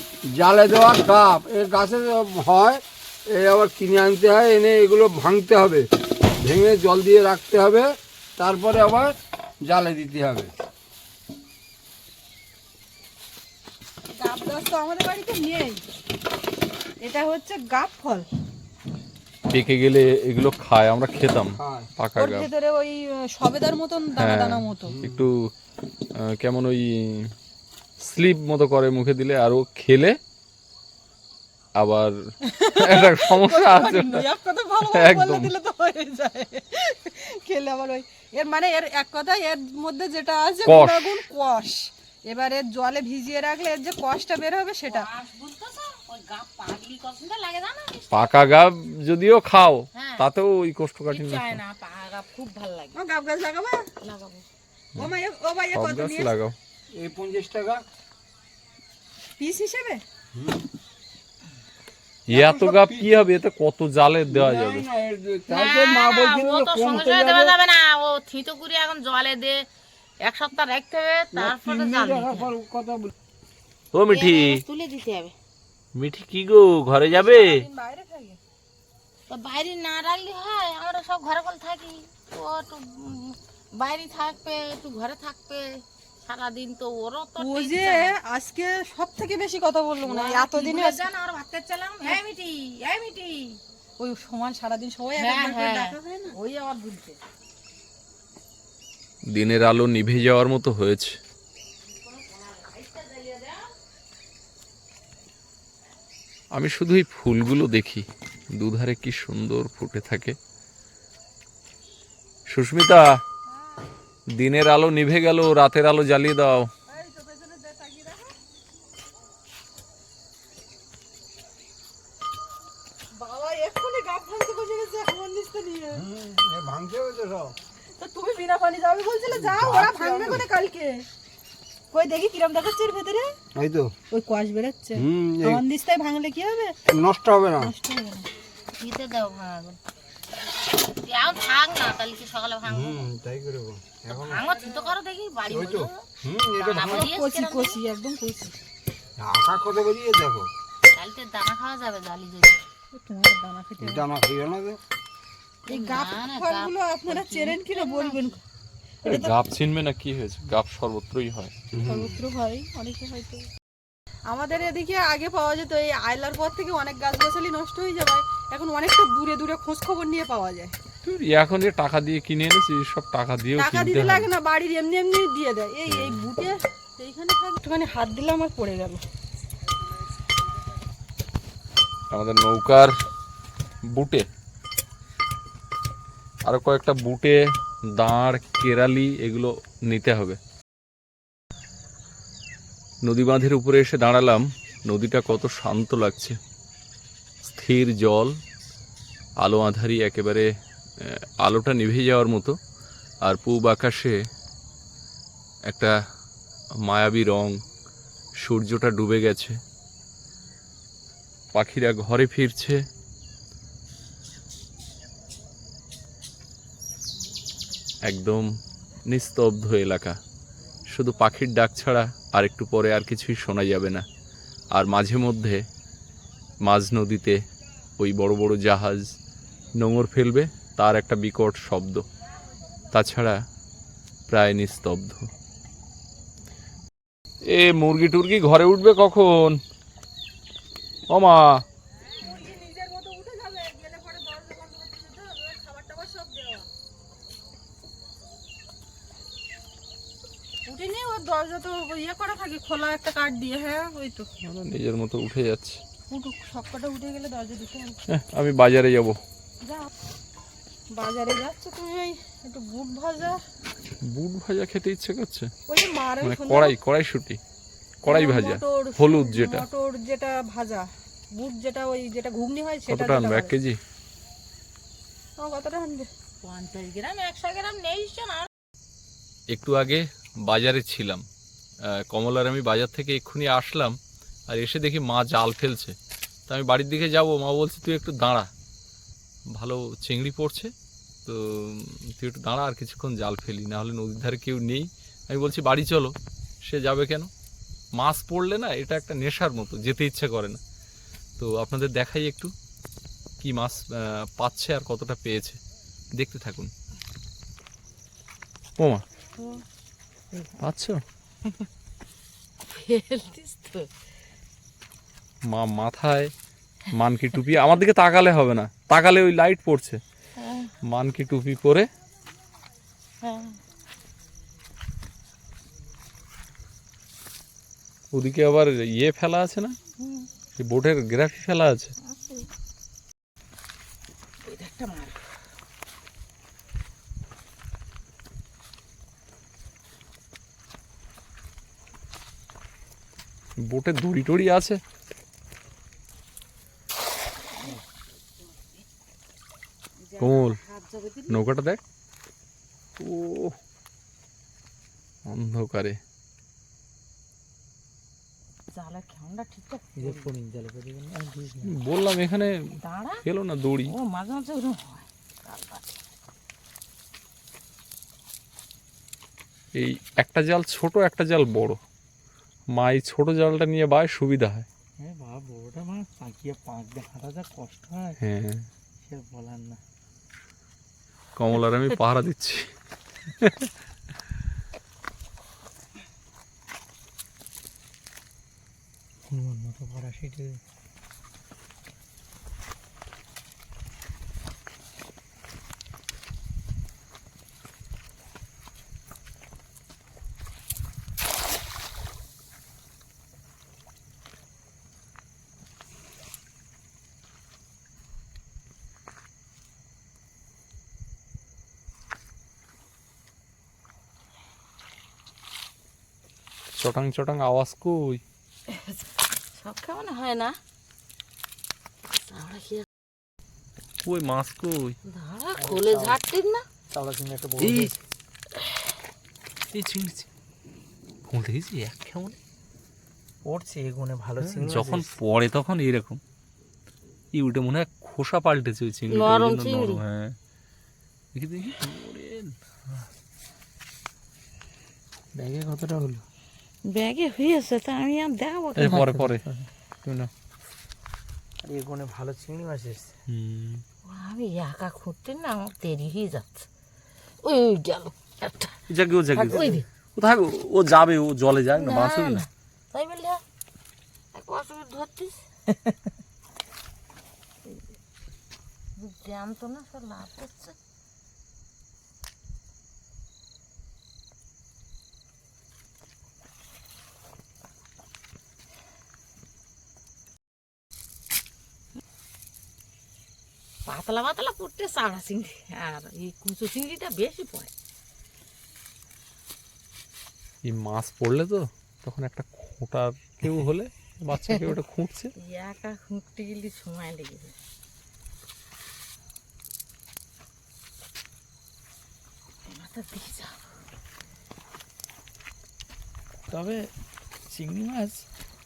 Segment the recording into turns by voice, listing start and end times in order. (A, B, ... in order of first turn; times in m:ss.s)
0:00.3-0:05.8 A
0:06.4-0:07.9 A
0:08.4-0:09.1 A
0:09.6-0:10.5 A
0:14.2-0:15.8 B
0:17.0-0:18.2 B
0:19.5-0:22.5 C
0:21.6-0:21.9 A
0:22.2-0:24.9 B
0:24.2-0:25.5 C
0:24.9-0:25.3 A
0:26.1-0:27.3 C
0:28.0-0:30.2 C
0:31.8-0:32.2 C
0:32.4-0:45.1 B
0:32.8-0:34.2 C
0:34.8-0:35.5 C
0:40.6-0:41.2 C
0:44.8-0:48.4 D
0:48.1-0:51.6 C
0:49.9-0:50.3 D
0:51.1-0:53.0 D
0:52.9-0:53.9 B
0:54.0-0:54.5 D
0:55.0-0:56.3 B
0:55.7-0:56.6 C
0:57.0-0:57.8 A
0:59.4-1:00.0 B
1:02.3-1:04.9 C
1:02.3-1:03.1 A
1:04.3-1:07.6 A
1:05.5-1:09.7 D
1:10.2-1:12.5 D
1:11.3-1:13.1 A
1:13.9-1:14.6 C
1:14.1-1:15.3 D
1:16.0-1:17.6 C
1:17.1-1:18.4 B
1:19.3-1:28.2 D
1:27.4-1:31.0 B
1:30.0-1:33.6 D
1:34.0-1:36.3 B
1:35.2-1:37.2 D
1:39.3-1:41.2 C
1:41.9-1:43.7 D
1:46.5-1:50.4 C
1:52.5-1:53.2 C
1:54.4-1:56.7 C
1:56.9-1:58.4 B
2:03.2-2:06.0 B
2:05.9-2:07.5 A
2:08.0-2:11.0 B
2:09.3-2:10.4 A
2:11.9-2:13.3 B
2:13.6-2:13.9 A
2:14.1-2:16.8 B
2:15.0-2:15.6 A
2:16.9-2:17.7 A
2:17.6-2:18.3 B
2:18.8-2:19.8 D
2:20.6-2:23.1 D
2:22.6-2:24.4 A
2:24.1-2:27.8 D
2:25.5-2:27.1 A
2:26.8-2:28.5 B
2:29.2-2:30.5 A
2:30.9-2:32.6 D
2:32.9-2:34.0 B
2:33.8-2:34.8 A
2:35.7-2:38.4 B
2:35.7-2:38.4 D
2:39.0-2:39.3 B
2:39.0-2:41.5 C
2:41.7-2:42.2 A
2:41.8-2:43.5 B
2:44.3-2:50.7 B
2:51.0-2:54.3 C
2:53.6-2:59.0 B
2:55.9-2:56.2 C
3:02.1-3:02.9 C
3:03.9-3:04.3 C
3:06.4-3:10.4 C
3:13.0-3:16.4 C
3:17.4-3:18.4 C
3:19.4-3:22.6 C
3:23.2-3:24.2 C
3:25.7-3:25.9 C
3:26.8-3:27.6 C
3:28.4-3:29.6 C
3:31.5-3:32.8 C
3:38.0-3:38.5 C
3:39.1-3:40.2 C
3:40.9-3:44.0 C
3:44.7-3:45.6 C
3:46.6-3:47.4 C
3:48.0-3:49.1 C
3:49.8-3:52.0 C
3:52.9-3:53.4 C
3:54.3-3:55.3 C
3:57.5-3:59.6 C
4:01.1-4:01.6 C
4:02.2-4:06.7 B
4:10.6-4:14.3 B
4:14.4-4:15.8 C
4:16.1-4:18.0 B
4:18.1-4:19.2 C
4:20.9-4:23.4 B
4:24.0-4:25.5 C
4:25.7-4:26.8 B
4:26.2-4:27.4 C
4:28.0-4:29.6 C
4:28.0-4:33.5 B
4:32.9-4:33.8 C
4:35.4-4:36.1 B
4:36.4-4:38.5 D
4:39.5-4:41.2 C
4:41.8-4:46.0 C
4:46.5-4:48.5 C
4:49.5-4:50.7 C
4:51.2-4:57.3 C
4:58.0-5:00.6 C
5:01.4-5:02.5 C
5:03.4-5:05.6 C
5:06.1-5:06.7 C
5:08.8-5:09.0 C
5:09.4-5:09.6 D
5:10.3-5:10.6 D
5:10.6-5:11.0 C
5:11.4-5:11.7 D
5:12.7-5:13.9 D
5:15.5-5:16.3 C
5:16.9-5:20.0 C
5:20.4-5:20.7 D
5:20.8-5:21.9 C
5:23.2-5:23.6 D
5:28.1-5:29.8 C
5:30.0-5:30.3 D
5:30.6-5:31.9 C
5:32.0-5:32.5 D
5:34.4-5:35.2 D
5:43.6-5:44.8 C
5:47.5-5:47.8 D
5:48.4-5:48.8 D
5:50.0-5:51.4 D
5:50.2-5:50.6 C
5:51.3-5:51.8 C
5:53.0-5:53.5 C
5:55.2-5:56.0 C
5:58.7-6:00.3 D
6:00.0-6:01.8 E
6:01.6-6:02.7 C
6:02.8-6:03.2 D
6:03.2-6:03.9 C
6:03.8-6:06.0 D
6:09.7-6:11.8 C
6:12.7-6:14.7 C
6:15.0-6:18.2 E
6:18.2-6:18.7 C
6:19.0-6:19.8 E
6:21.4-6:22.7 C
6:23.4-6:23.7 C
6:29.3-6:30.6 E
6:56.7-6:58.2 C
6:58.7-6:59.0 D
6:59.5-7:00.6 D
7:02.1-7:02.8 D
7:04.0-7:05.0 C
7:05.1-7:06.6 D
7:05.6-7:06.2 E
7:06.9-7:08.0 E
7:07.6-7:07.9 C
7:08.6-7:08.8 D
7:09.7-7:10.3 C
7:11.2-7:12.4 C
7:13.4-7:15.1 E
7:14.4-7:16.2 C
7:17.3-7:20.4 C
7:19.1-7:20.0 D
7:21.3-7:22.5 C
7:25.4-7:26.2 E
7:26.8-7:29.0 D
7:28.7-7:29.4 C
7:28.8-7:29.7 E
7:30.0-7:30.3 C
7:31.6-7:33.2 E
7:33.3-7:33.8 C
7:34.0-7:36.7 D
7:37.4-7:38.8 D
7:38.9-7:42.4 C
7:39.3-7:39.8 E
7:39.4-7:39.8 D
7:41.7-7:43.4 D
7:44.3-7:45.4 D
7:49.0-7:50.8 D
8:03.8-8:07.7 D
8:10.6-8:15.3 C
8:15.4-8:17.5 D
8:22.6-8:23.7 D
8:26.5-8:26.9 E
8:27.5-8:28.3 E